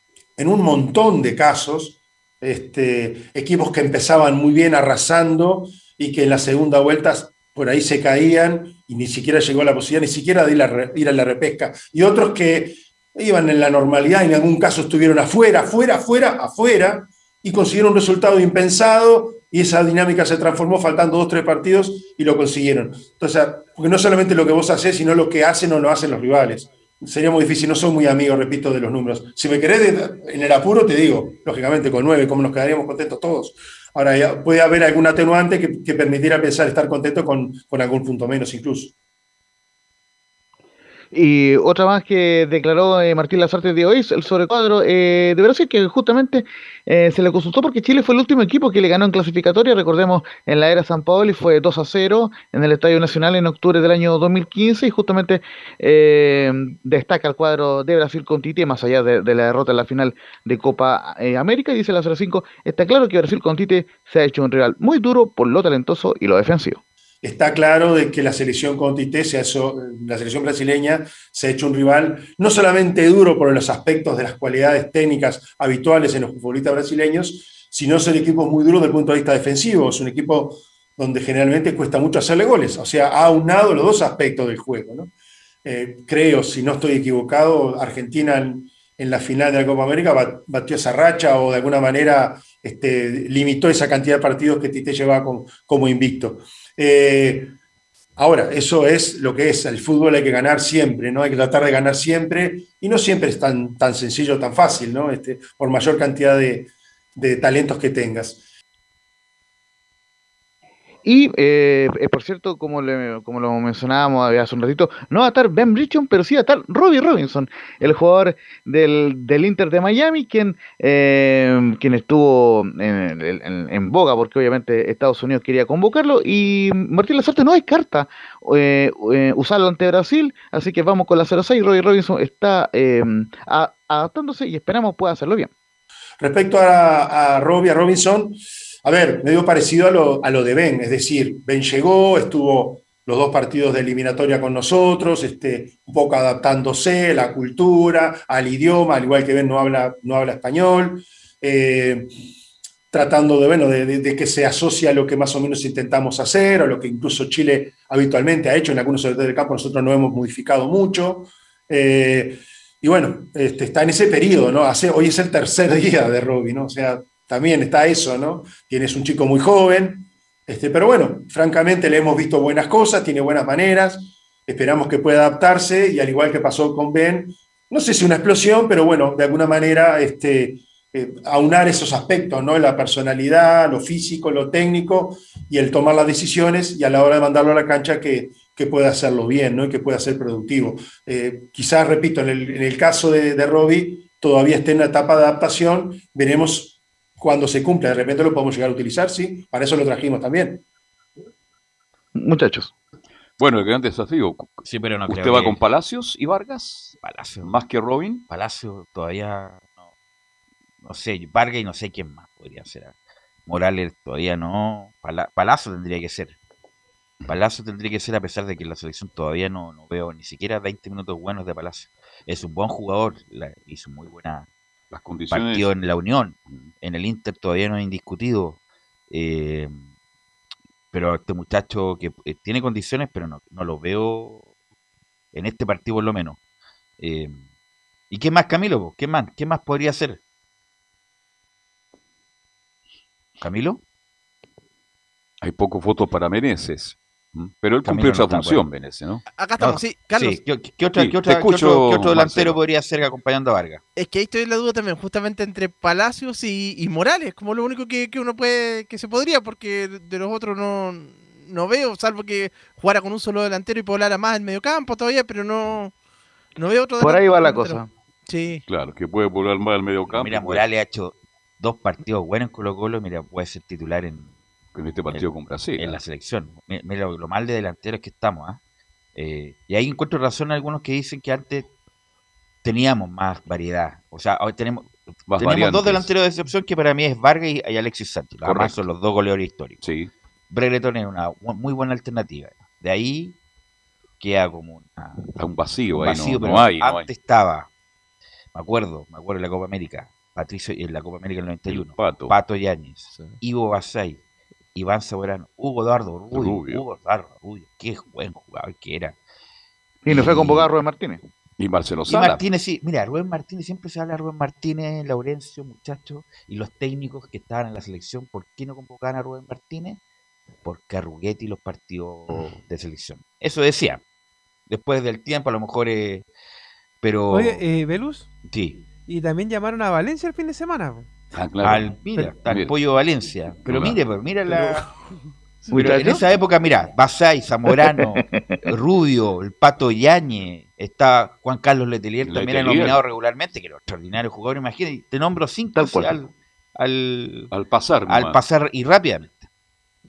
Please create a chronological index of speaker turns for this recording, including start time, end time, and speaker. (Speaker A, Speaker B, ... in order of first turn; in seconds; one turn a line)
Speaker A: 0.4-38.9
Speaker B: 41.1-66.8
Speaker A: 67.2-85.1
Speaker A: 85.6-97.5
Speaker A: 98.2-108.4
Speaker B: 111.0-135.5
Speaker A: 136.2-152.1
Speaker A: 152.9-200.6
Speaker B: 202.2-202.7
Speaker C: 203.4-204.5
Speaker D: 204.6-205.6
Speaker C: 205.1-208.2
Speaker D: 207.0-207.5
Speaker D: 208.3-209.8
Speaker D: 210.8-212.9
Speaker D: 213.5-216.3
Speaker D: 217.3-224.5
Speaker C: 224.9-225.7
Speaker D: 225.3-228.6
Speaker D: 229.1-229.8
Speaker D: 230.9-234.5
Speaker D: 235.3-236.4
Speaker D: 237.0-237.4
Speaker D: 238.1-240.2
Speaker D: 243.4-243.8
Speaker C: 245.4-249.2
Speaker D: 247.8-248.6
Speaker E: 249.4-250.4
Speaker D: 249.6-253.8
Speaker C: 250.9-252.6
Speaker E: 253.9-265.9
Speaker E: 266.6-268.6
Speaker B: 267.0-267.9
Speaker C: 268.7-270.6
Speaker D: 270.1-274.3
Speaker C: 274.7-276.0
Speaker D: 275.8-278.6
Speaker D: 279.1-281.7
Speaker D: 282.6-289.8
Speaker C: 285.3-286.1
Speaker C: 288.4-288.8
Speaker C: 289.8-290.1
Speaker D: 290.5-293.4
Speaker D: 294.2-295.2
Speaker C: 295.3-297.1
Speaker D: 295.9-297.7
Speaker D: 298.5-304.2
Speaker C: 301.7-302.3
Speaker D: 304.7-309.1
Speaker C: 306.3-306.8
Speaker B: 310.0-311.2
Speaker D: 310.1-310.7
Speaker C: 311.6-312.4
Speaker D: 312.1-320.0
Speaker D: 320.6-324.0
Speaker D: 324.7-326.2
Speaker D: 327.0-327.6
Speaker F: 327.3-328.3
Speaker D: 328.4-328.8
Speaker F: 329.1-331.1
Speaker C: 331.3-332.7
Speaker D: 331.6-334.8
Speaker C: 333.6-334.0
Speaker D: 335.7-347.5
Speaker B: 335.7-336.1
Speaker B: 337.9-338.4
Speaker C: 342.2-343.0
Speaker B: 345.8-346.2
Speaker C: 347.5-348.4
Speaker D: 348.1-349.5